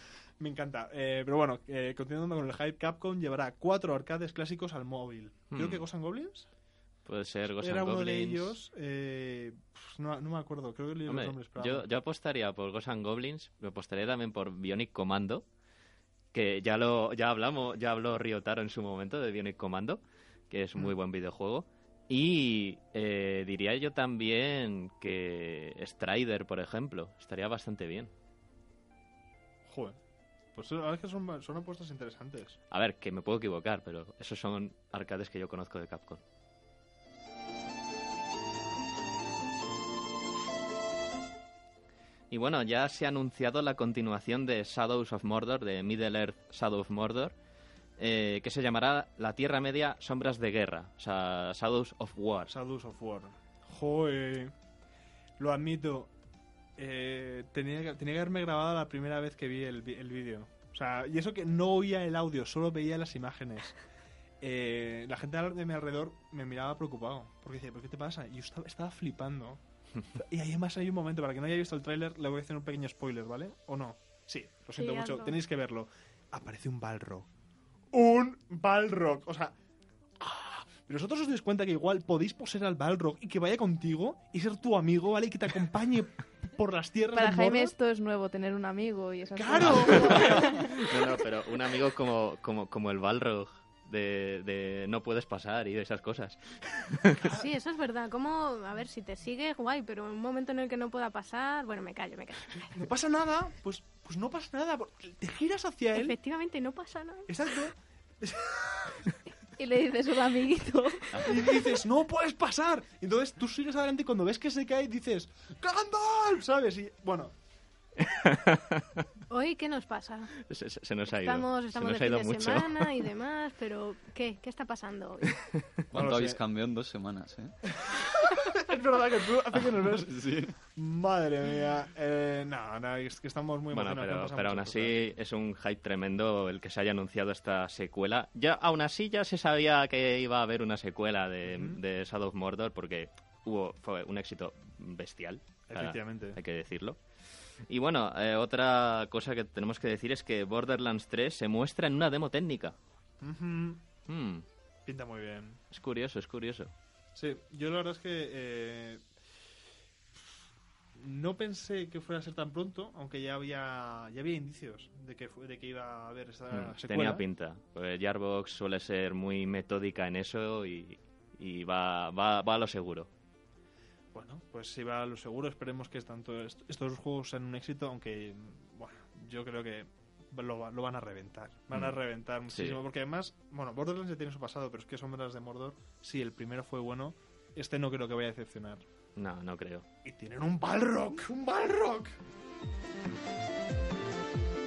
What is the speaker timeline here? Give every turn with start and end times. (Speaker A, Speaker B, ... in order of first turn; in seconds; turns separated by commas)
Speaker A: 0.4-6.5, Speaker B: 5.5-5.8, Speaker B: 7.1-8.6, Speaker A: 7.6-11.9, Speaker B: 11.1-15.4, Speaker B: 16.3-28.1, Speaker A: 29.7-30.0, Speaker A: 30.6-32.6, Speaker B: 32.7-36.2, Speaker B: 42.3-47.4, Speaker B: 48.0-52.5, Speaker A: 52.5-54.5, Speaker A: 55.4-56.1, Speaker A: 56.8-63.8, Speaker A: 64.4-77.3, Speaker C: 74.8-75.4, Speaker A: 77.9-79.5, Speaker A: 80.2-87.8, Speaker D: 87.1-90.7, Speaker A: 89.3-90.6, Speaker B: 89.6-97.2, Speaker A: 97.2-97.5, Speaker C: 97.3-102.7, Speaker A: 102.7-106.2, Speaker C: 105.9-107.3, Speaker A: 107.3-109.2, Speaker D: 109.6-111.7, Speaker A: 111.2-117.3, Speaker B: 118.0-119.0, Speaker C: 119.3-120.3, Speaker B: 120.5-123.0, Speaker C: 121.1-125.4, Speaker A: 125.9-126.4, Speaker E: 125.9-127.5, Speaker A: 127.8-130.2, Speaker E: 130.0-130.4, Speaker A: 130.7-135.1, Speaker B: 133.7-147.0, Speaker A: 141.4-141.8, Speaker A: 145.7-146.4, Speaker B: 147.7-152.8, Speaker A: 153.2-153.8, Speaker B: 154.1-154.4, Speaker A: 154.9-155.6, Speaker B: 155.7-156.7, Speaker A: 157.2-159.0, Speaker A: 161.0-167.2, Speaker B: 166.5-173.1, Speaker A: 174.1-188.8, Speaker B: 181.7-182.0, Speaker B: 182.5-182.8, Speaker B: 189.2-189.8, Speaker A: 190.1-192.2